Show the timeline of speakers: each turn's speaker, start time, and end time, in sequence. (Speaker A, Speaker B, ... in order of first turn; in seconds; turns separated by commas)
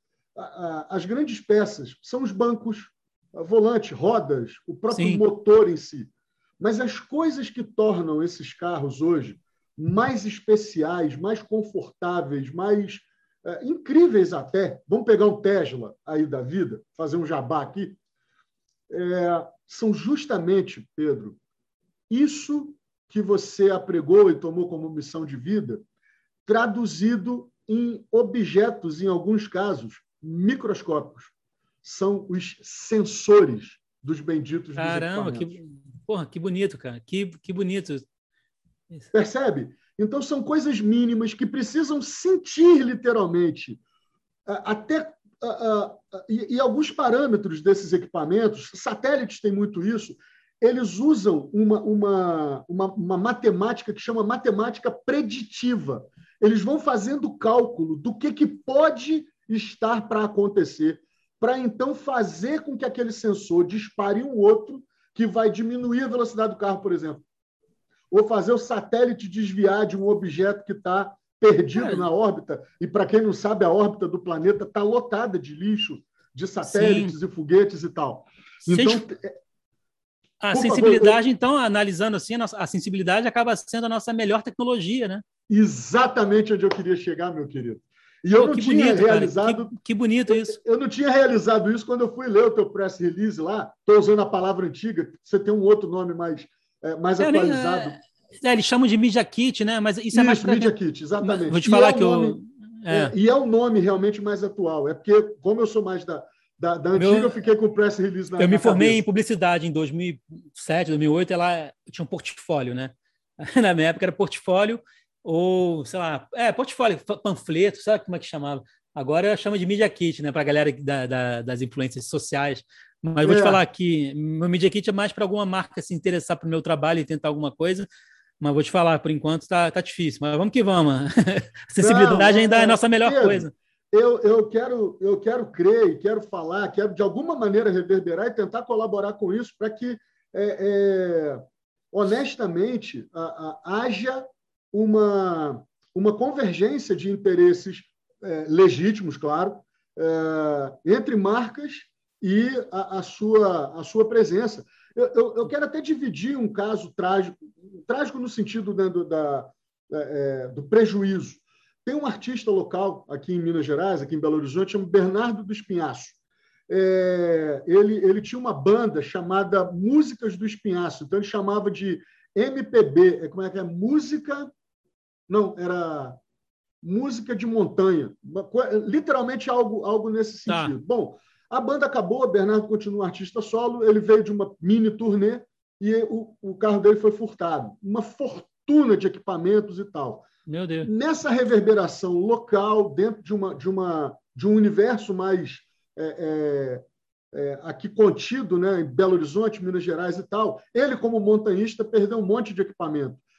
Speaker A: 0.4-18.0, Speaker B: 4.9-5.2, Speaker A: 18.9-21.4, Speaker A: 22.1-25.8, Speaker A: 26.5-31.3, Speaker A: 31.8-35.5, Speaker B: 34.8-38.0, Speaker A: 39.1-43.8, Speaker A: 44.5-67.2, Speaker A: 68.1-79.4, Speaker B: 71.8-72.1, Speaker B: 76.6-77.2, Speaker B: 78.7-79.0, Speaker B: 80.4-85.2, Speaker A: 80.5-81.2, Speaker A: 85.5-89.8, Speaker B: 88.4-90.6, Speaker A: 90.3-98.0, Speaker B: 97.2-103.1, Speaker A: 100.1-102.4, Speaker A: 102.9-109.0, Speaker B: 107.0-107.3, Speaker B: 108.4-127.9, Speaker A: 123.2-123.6, Speaker B: 128.4-133.5, Speaker A: 131.8-141.4, Speaker A: 141.9-166.2, Speaker A: 166.7-174.5, Speaker A: 175.3-176.2, Speaker A: 176.8-190.3, Speaker B: 180.5-180.7, Speaker B: 190.5-190.9, Speaker A: 190.8-196.8, Speaker A: 197.3-203.2